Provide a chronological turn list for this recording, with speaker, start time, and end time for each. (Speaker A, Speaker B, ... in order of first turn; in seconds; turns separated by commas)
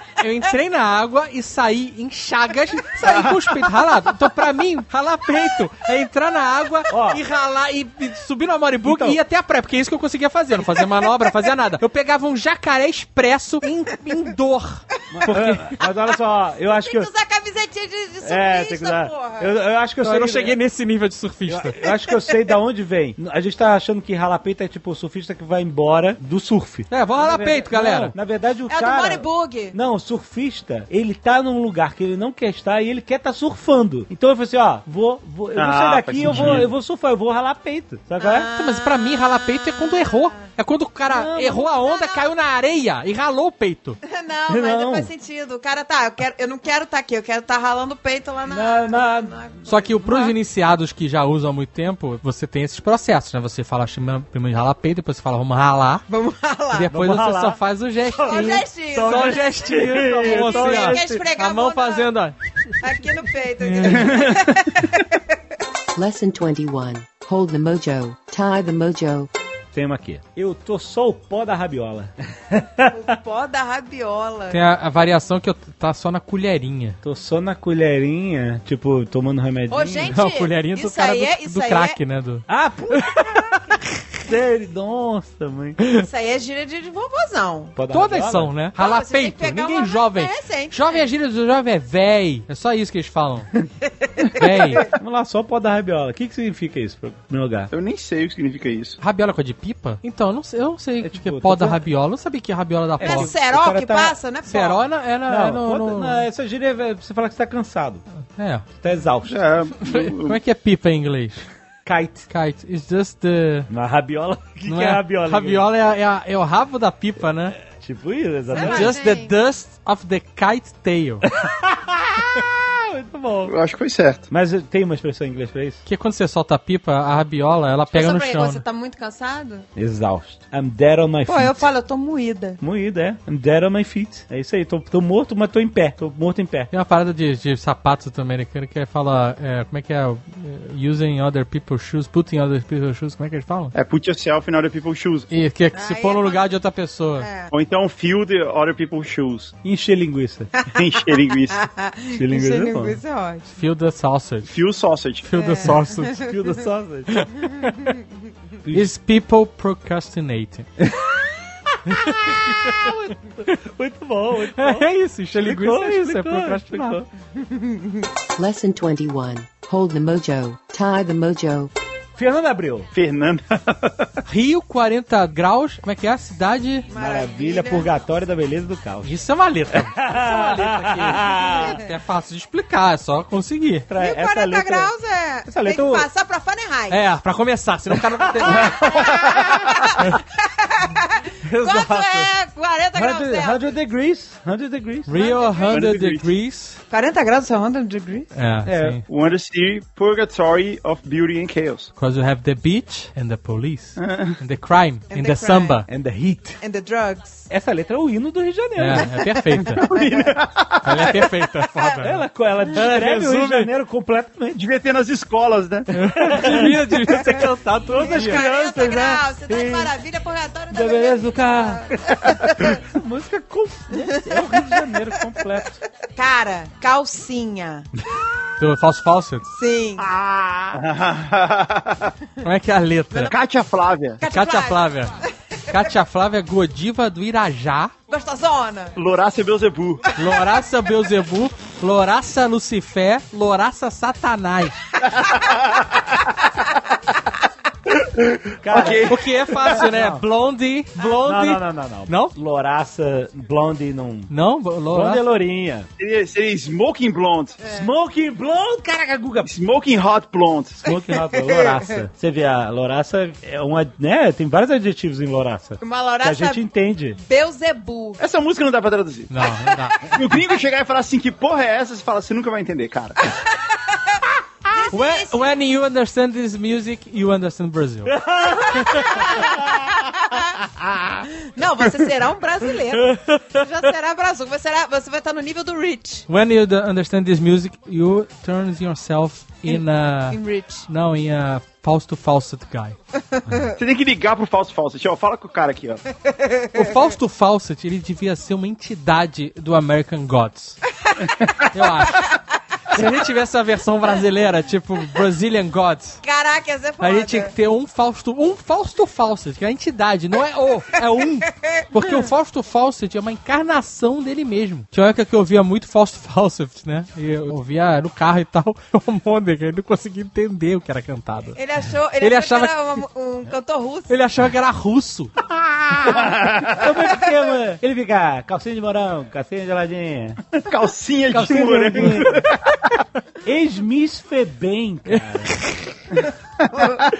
Speaker A: 0.2-15.7, Speaker B: 6.9-7.2, Speaker B: 8.8-9.2, Speaker B: 15.1-17.1, Speaker C: 16.7-19.5, Speaker B: 18.2-20.6, Speaker A: 20.0-21.8, Speaker B: 21.4-38.5, Speaker A: 26.9-28.1, Speaker C: 28.7-29.8, Speaker D: 35.5-36.7, Speaker A: 36.2-36.6, Speaker C: 38.2-40.5, Speaker A: 38.5-44.0, Speaker B: 41.1-41.7, Speaker C: 41.7-42.3, Speaker C: 44.0-50.3, Speaker B: 44.5-45.1, Speaker B: 48.5-49.4, Speaker A: 49.7-56.0, Speaker C: 56.1-56.9, Speaker A: 56.7-62.8, Speaker B: 56.9-61.2, Speaker C: 58.2-62.1, Speaker C: 62.8-65.2, Speaker A: 63.6-64.4, Speaker E: 66.0-69.3, Speaker B: 69.7-72.9, Speaker C: 72.9-74.6, Speaker A: 74.5-77.0, Speaker B: 77.0-80.2, Speaker C: 79.7-82.0, Speaker A: 80.1-83.5, Speaker B: 82.5-83.5, Speaker B: 84.2-85.8, Speaker C: 85.9-87.7, Speaker B: 87.7-88.5, Speaker A: 87.9-93.5, Speaker C: 88.8-91.1, Speaker C: 94.0-94.9, Speaker A: 94.3-94.9, Speaker B: 94.9-97.7, Speaker D: 97.7-99.0, Speaker A: 99.0-103.3, Speaker B: 101.0-101.8, Speaker C: 103.0-104.8, Speaker B: 103.0-104.2, Speaker A: 104.5-106.2, Speaker B: 105.3-108.0, Speaker A: 108.3-108.6, Speaker B: 108.8-109.4, Speaker D: 109.3-110.4, Speaker A: 109.8-111.5, Speaker B: 111.8-112.3, Speaker A: 112.3-113.7, Speaker B: 113.7-115.7, Speaker A: 114.7-117.6, Speaker B: 117.6-119.0, Speaker C: 118.5-119.3, Speaker A: 118.6-121.3, Speaker B: 121.2-123.6, Speaker D: 123.5-124.3, Speaker B: 124.3-125.8, Speaker A: 125.8-128.6, Speaker C: 127.9-129.7, Speaker B: 129.7-131.7, Speaker C: 131.2-132.6, Speaker B: 132.6-136.7, Speaker A: 136.7-143.7, Speaker D: 143.7-145.3, Speaker A: 145.3-147.3, Speaker C: 145.7-146.6, Speaker C: 147.2-147.5, Speaker D: 147.5-149.5, Speaker B: 149.6-150.5, Speaker C: 150.6-153.5, Speaker D: 150.7-151.7, Speaker B: 152.1-153.0, Speaker A: 153.5-154.5, Speaker D: 154.4-155.2, Speaker A: 155.2-156.3, Speaker C: 155.3-156.3, Speaker B: 156.3-157.3, Speaker A: 157.1-157.9, Speaker C: 157.4-157.9, Speaker B: 158.6-158.9, Speaker A: 158.7-160.7, Speaker B: 160.8-167.1, Speaker A: 161.9-163.0, Speaker A: 164.5-167.0, Speaker C: 167.3-168.1, Speaker E: 168.4-171.7, Speaker B: 172.2-172.9, Speaker D: 172.9-174.2, Speaker A: 174.3-176.9, Speaker C: 176.9-177.9, Speaker B: 176.9-179.2, Speaker A: 179.0-183.9, Speaker B: 179.7-181.8, Speaker B: 183.9-184.9, Speaker C: 184.0-187.0, Speaker B: 185.4-186.1, Speaker A: 186.9-189.2, Speaker B: 188.2-190.0, Speaker C: 188.5-193.7, Speaker B: 191.4-192.3, Speaker B: 192.9-195.2, Speaker A: 195.1-196.8, Speaker C: 195.1-195.8, Speaker D: 195.7-196.3, Speaker C: 196.9-198.3, Speaker A: 198.3-199.0, Speaker B: 198.6-199.0, Speaker D: 199.1-201.9, Speaker A: 202.0-205.9, Speaker D: 204.0-204.4, Speaker C: 205.1-205.9, Speaker B: 205.9-206.6, Speaker C: 206.6-207.5, Speaker B: 207.5-210.3, Speaker A: 208.8-209.9, Speaker D: 209.9-211.1, Speaker A: 210.8-213.7, Speaker B: 212.0-214.6, Speaker D: 214.5-215.9, Speaker B: 215.9-217.0, Speaker A: 215.9-218.4, Speaker B: 217.8-219.9, Speaker C: 218.0-222.8, Speaker B: 220.7-225.8, Speaker C: 224.0-224.8, Speaker C: 226.1-227.9, Speaker A: 228.6-229.4, Speaker C: 229.5-230.1, Speaker B: 230.0-230.8, Speaker D: 230.7-232.2, Speaker A: 232.4-233.3, Speaker D: 233.3-234.2, Speaker C: 234.2-235.3, Speaker A: 234.3-235.1, Speaker A: 235.7-237.9, Speaker C: 238.1-239.0, Speaker D: 238.9-240.0, Speaker A: 240.2-244.8, Speaker D: 245.2-245.8, Speaker D: 248.0-249.2, Speaker B: 248.6-250.2, Speaker A: 249.1-252.3, Speaker B: 251.0-254.3, Speaker A: 254.3-255.2, Speaker B: 254.9-255.9, Speaker D: 256.0-257.6, Speaker B: 257.6-259.5, Speaker D: 259.4-260.8, Speaker B: 260.8-267.2, Speaker C: 261.0-262.0, Speaker C: 265.8-268.2, Speaker D: 268.2-269.3, Speaker A: 269.3-270.1, Speaker D: 270.1-273.3, Speaker C: 273.3-275.5, Speaker A: 274.9-278.2, Speaker B: 278.1-279.9, Speaker C: 278.5-280.6, Speaker A: 278.7-279.3, Speaker C: 281.4-286.2, Speaker A: 283.0-283.5, Speaker A: 286.3-292.9, Speaker C: 289.6-290.9, Speaker C: 293.3-293.7, Speaker D: 293.8-296.0, Speaker C: 296.2-296.9, Speaker A: 296.7-300.8, Speaker A: 301.6-302.3, Speaker C: 302.1-302.4, Speaker A: 302.9-306.2, Speaker C: 306.2-307.5, Speaker A: 307.0-321.6, Speaker C: 321.5-324.1, Speaker A: 322.2-323.0, Speaker A: 324.1-325.3, Speaker B: 325.7-330.4, Speaker D: 326.1-326.8, Speaker D: 330.6-332.8, Speaker B: 331.3-332.4, Speaker A: 331.9-332.3, Speaker B: 333.4-335.6, Speaker A: 335.1-335.9